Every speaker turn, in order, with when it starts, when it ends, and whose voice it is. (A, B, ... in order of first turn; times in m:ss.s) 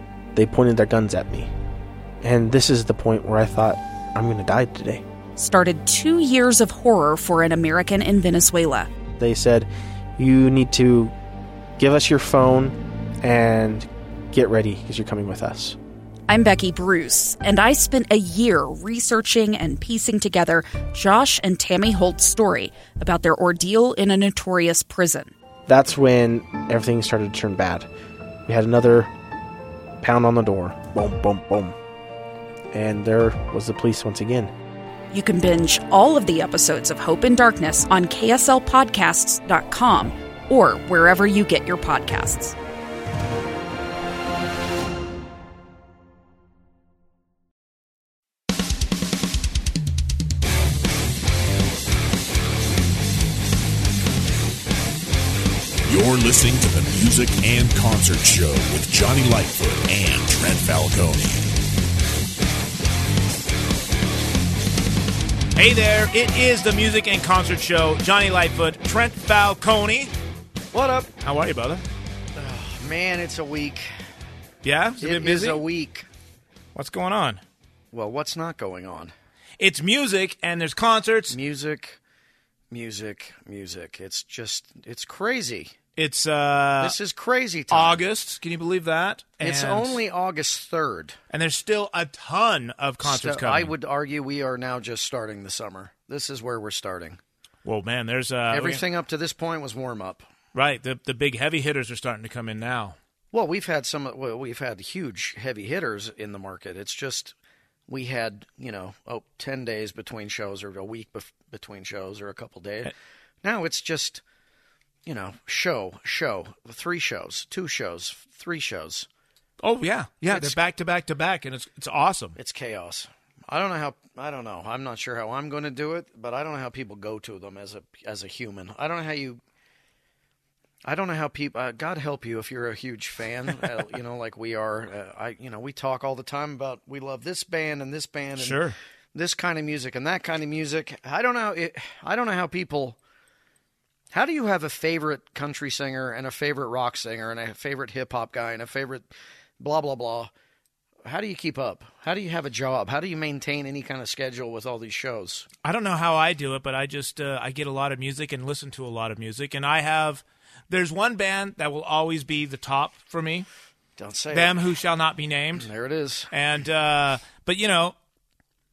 0:00.3-0:01.5 A
0:02.2-0:05.0 A
0:05.4-0:08.9 B
0:09.2-0:11.1 A
0:11.8-0:15.8 A
0:16.3-0:25.3 B
0:25.6-0:27.9 A
0:28.4-0:29.1 A
0:30.0-0:31.8 A
0:32.7-0:34.5 A
0:35.1-0:42.6 B
0:55.9-1:01.5 C
1:05.6-1:10.1 D
1:10.7-1:11.1 E
1:11.2-1:11.8 D
1:12.4-1:13.9 E
1:14.6-1:15.6 D
1:15.0-1:16.1 E
1:16.8-1:17.4 D
1:17.9-1:19.1 E
1:19.6-1:21.4 D
1:21.3-1:22.0 E
1:22.7-1:25.7 E
1:26.0-1:27.0 D
1:26.8-1:28.0 E
1:27.7-1:30.0 D
1:29.4-1:31.2 E
1:31.3-1:33.7 D
1:33.0-1:37.2 E
1:37.6-1:38.8 D
1:38.5-1:40.3 E
1:40.5-1:43.0 D
1:43.3-1:47.4 E
1:47.9-1:52.9 E
1:53.4-1:54.2 E
1:55.0-1:59.1 E
1:59.6-2:02.4 D
2:00.3-2:00.6 E
2:02.4-2:09.4 E
2:10.8-2:18.6 E
2:18.4-2:18.8 D
2:19.1-2:23.0 E
2:24.1-2:29.1 E
2:29.6-2:30.3 E
2:31.0-2:35.5 E
2:35.6-2:43.5 D
2:44.0-2:44.6 E
2:44.3-2:45.7 D
2:45.6-2:46.3 E
2:46.3-2:47.9 D